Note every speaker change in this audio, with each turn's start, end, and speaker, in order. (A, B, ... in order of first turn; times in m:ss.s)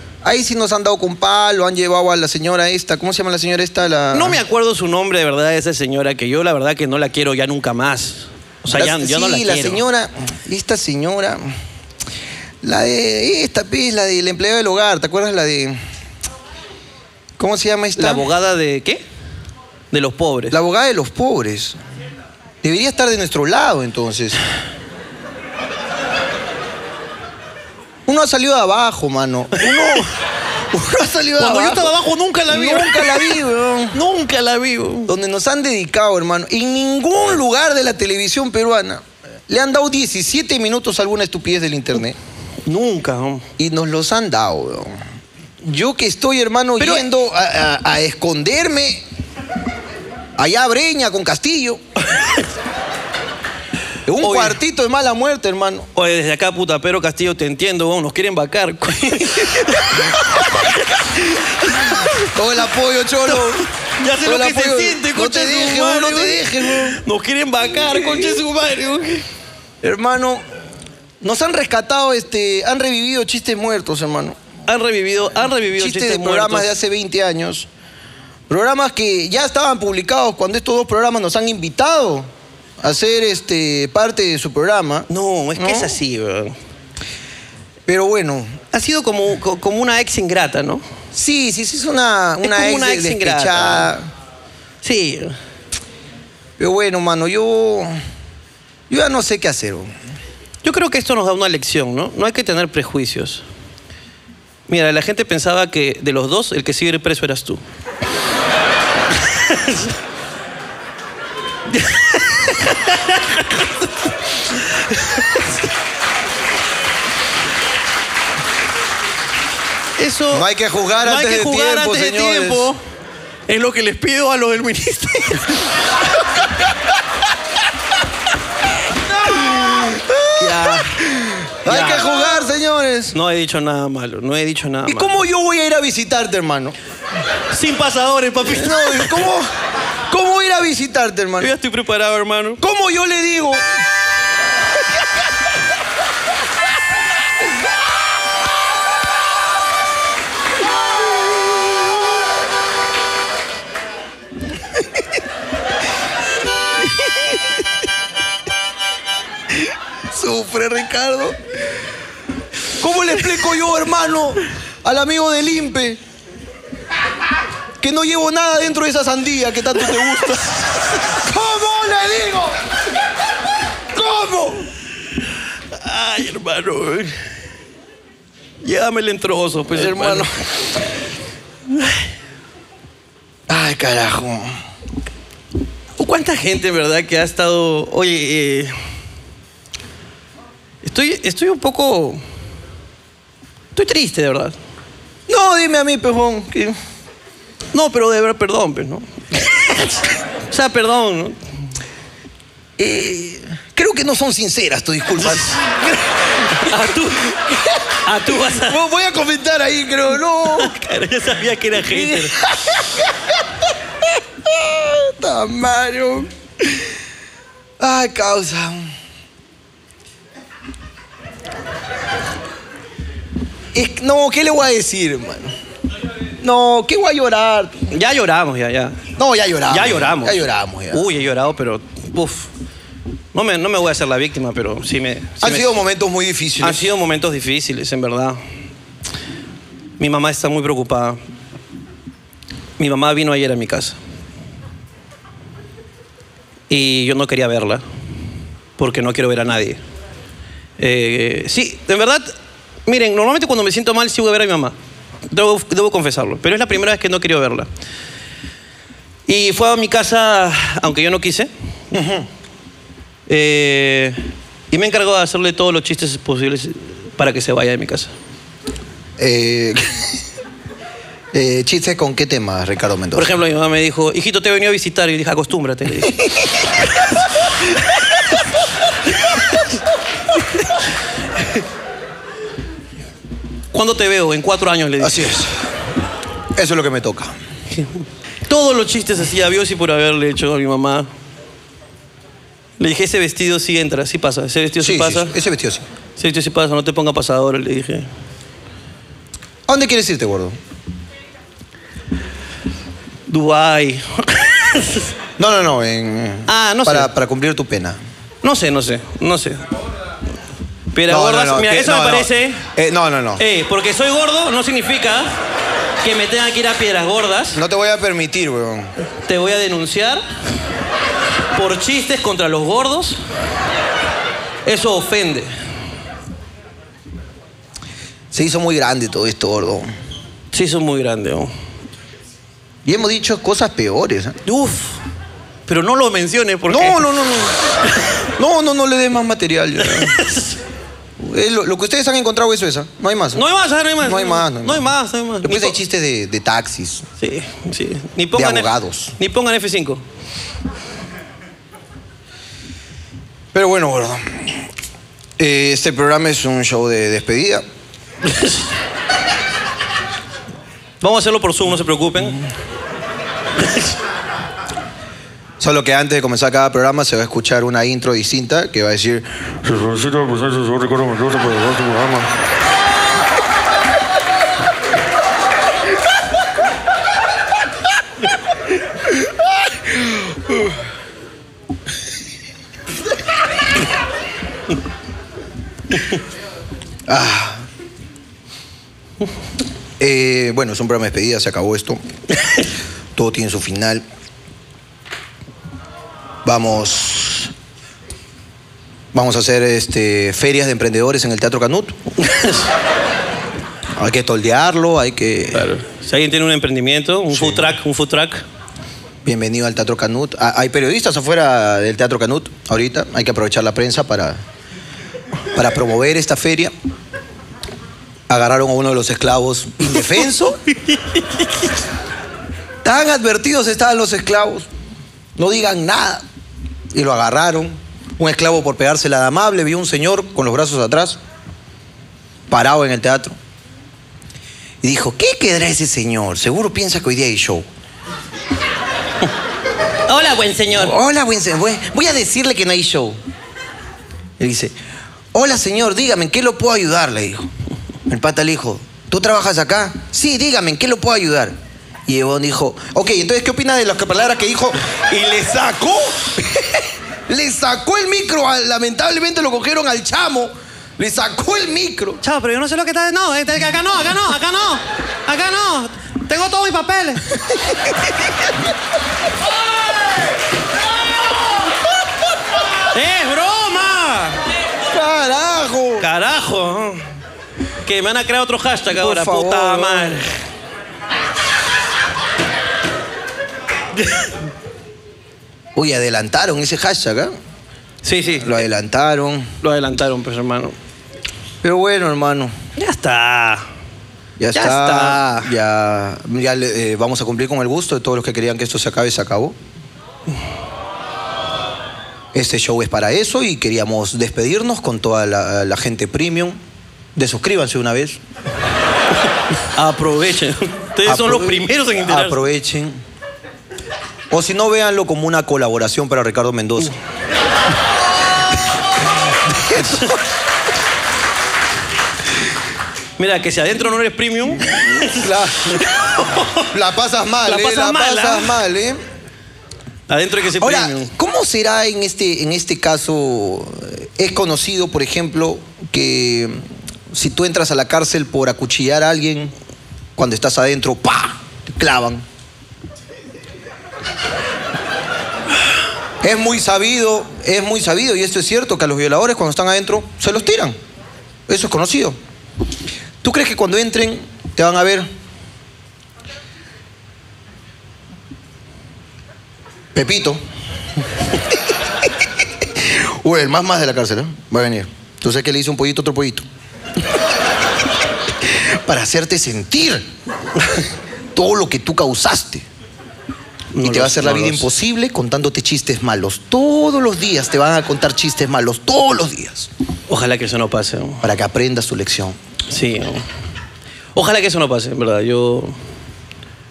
0:00.2-0:04.4 A
0:04.1-0:09.8 B
0:08.7-0:11.5 A
0:12.6-0:15.8 A
0:17.4-0:18.3 A
0:18.0-0:19.0 B
0:19.9-0:20.6 B
0:20.5-0:21.8 A
0:22.6-0:24.4 A
0:28.1-0:30.1 A
0:29.6-0:30.0 B
0:30.7-0:32.0 A
0:31.4-0:33.4 B
0:32.5-0:34.0 A
0:33.9-0:35.1 B
0:35.1-0:42.2 A
0:42.6-0:43.5 B
0:43.6-0:45.0 A
0:45.6-0:49.0 A
0:46.8-0:47.1 B
0:50.4-0:51.8 A
0:54.1-0:55.9 A
0:54.2-0:54.6 B
0:56.0-1:00.6 B
1:01.7-1:03.7 A
1:01.9-1:02.2 B
1:03.3-1:09.2 B
1:04.2-1:07.0 A
1:07.8-1:08.4 A
1:09.8-1:10.4 A
1:11.2-1:14.4 A
1:14.7-1:16.7 B
1:15.8-1:17.7 A
1:18.5-1:26.0 A
1:25.1-1:26.6 B
1:27.9-1:28.6 A
1:28.7-1:30.8 B
1:31.1-1:34.1 A
1:32.4-1:33.9 B
1:34.8-1:35.4 B
1:36.6-1:37.9 A
1:38.9-1:39.9 A
1:40.6-1:43.4 B
1:44.7-1:47.6 B
1:49.2-1:49.9 B
1:51.7-1:55.5 B
2:00.0-2:00.5 B
2:00.3-2:02.7 A
2:01.0-2:02.8 B
2:03.5-2:05.7 B
2:09.3-2:13.2 A
2:10.4-2:11.0 B
2:11.7-2:12.4 B
2:13.1-2:15.1 B
2:14.9-2:16.8 A
2:17.5-2:19.2 B
2:18.4-2:19.5 A
2:20.1-2:21.5 A
2:21.4-2:22.6 B
2:22.6-2:23.8 A
2:36.8-2:37.6 A
2:39.7-2:41.4 A
2:42.8-2:46.0 A
2:47.8-2:52.6 A
2:53.9-2:54.7 A
2:55.7-2:57.2 B
2:58.6-3:00.3 B
2:59.7-3:00.3 A
3:01.8-3:02.1 B
3:03.5-3:04.6 A
3:06.0-3:08.7 B
3:10.8-3:12.2 B
3:13.8-3:14.6 B
3:15.3-3:16.8 A
3:17.7-3:21.4 B
3:22.8-3:26.8 A
3:26.5-3:28.8 B
3:28.6-3:30.8 A
3:30.6-3:32.4 B
3:31.9-3:33.4 A
3:34.4-3:36.8 A
3:37.8-3:38.9 A
3:43.7-3:45.6 A
3:46.4-3:47.9 A
3:47.9-3:49.0 B
3:49.2-3:51.1 A
3:49.7-3:52.5 B
3:53.3-3:55.8 B
3:55.4-3:56.9 A
3:56.6-3:58.4 B
4:00.0-4:01.2 B
4:02.8-4:04.0 B
4:06.7-4:07.8 B
4:08.8-4:09.8 B
4:10.8-4:12.3 B
4:12.9-4:14.8 B
4:15.3-4:17.7 B
4:19.3-4:21.5 B
4:21.9-4:22.3 A
4:23.3-4:28.1 B
4:29.2-4:29.8 A
4:31.3-4:33.3 A
4:33.2-4:36.2 B
4:43.7-4:45.4 B
4:45.0-4:45.5 A
4:46.6-4:47.4 A
4:47.7-4:51.1 B
4:52.8-4:55.4 B
4:54.8-4:55.8 A
4:56.2-4:58.1 B
4:59.7-5:00.6 A
5:03.3-5:05.1 B
5:05.4-5:08.0 A
5:06.5-5:07.1 B
5:08.4-5:09.6 B
5:10.9-5:12.6 B
5:11.1-5:13.4 A
5:13.4-5:15.3 B
5:16.0-5:17.6 B
5:17.5-5:18.9 A
5:19.2-5:20.2 B
5:21.5-5:23.2 B
5:24.6-5:25.5 B
5:28.3-5:29.9 A
5:30.5-5:31.5 B
5:32.8-5:34.4 A
5:34.5-5:35.0 B
5:35.7-5:37.1 B
5:36.7-5:37.6 A
5:38.4-5:40.2 A
5:39.8-5:40.6 B
5:41.2-5:43.4 A
5:43.3-5:45.8 B
5:44.0-5:44.9 A
5:45.4-5:47.1 A
5:47.2-5:50.0 B
5:48.4-5:49.1 A
5:53.5-5:54.6 A
5:55.4-5:57.6 A
6:01.0-6:02.4 B
6:03.6-6:04.0 B
6:05.6-6:09.3 A
6:09.6-6:12.3 C
6:27.1-6:27.7 A
6:30.0-6:32.0 A
6:33.2-6:34.0 A
6:36.4-6:37.5 A
6:39.1-6:42.0 A
6:42.2-6:42.7 B
6:44.0-6:45.7 A
6:45.5-6:48.4 B
6:47.3-6:47.7 A
6:49.2-6:54.4 A
6:55.5-6:56.7 A
6:58.3-7:00.6 A
7:00.9-7:01.2 B
7:02.8-7:04.7 A
7:05.4-7:06.2 A
7:06.9-7:11.2 A
7:12.5-7:13.4 A
7:14.8-7:17.7 A
7:20.1-7:20.9 B
7:20.7-7:23.2 A
7:24.4-7:24.8 A
7:25.3-7:27.5 A
7:28.1-7:42.2 A
7:42.2-7:47.2 B
7:47.4-7:48.1 A
7:52.9-7:54.4 B
7:54.9-7:56.1 A
7:56.0-7:57.0 B
7:57.8-8:00.3 B
7:58.9-8:00.3 A
8:04.0-8:04.3 B
8:05.8-8:07.3 A
8:08.0-8:08.6 B
8:08.4-8:09.5 A
8:09.6-8:10.8 B
8:11.6-8:12.5 A
8:12.8-8:13.6 B
8:14.4-8:19.6 A
8:14.5-8:15.5 B
8:22.3-8:26.6 A
8:27.2-8:28.2 A
8:29.7-8:32.4 B
8:31.0-8:33.0 A
8:34.3-8:37.0 A
8:39.5-8:40.2 A
8:39.8-8:40.1 B
8:43.2-8:46.7 B
8:44.8-8:45.8 A
8:46.7-8:49.0 A
8:47.5-8:48.6 B
8:50.1-8:51.1 B
8:50.6-8:59.5 A
9:00.2-9:02.2 A
9:06.2-9:10.8 A
9:11.5-9:12.2 A
9:13.2-9:15.1 A
9:19.9-9:20.4 A
9:22.8-9:26.5 A
9:28.5-9:30.1 A
9:31.3-9:32.7 A
9:33.7-9:34.7 B
9:33.8-9:39.7 A
9:40.1-9:41.2 B
9:41.2-9:42.4 A
9:42.7-9:43.2 B
9:44.2-9:45.7 B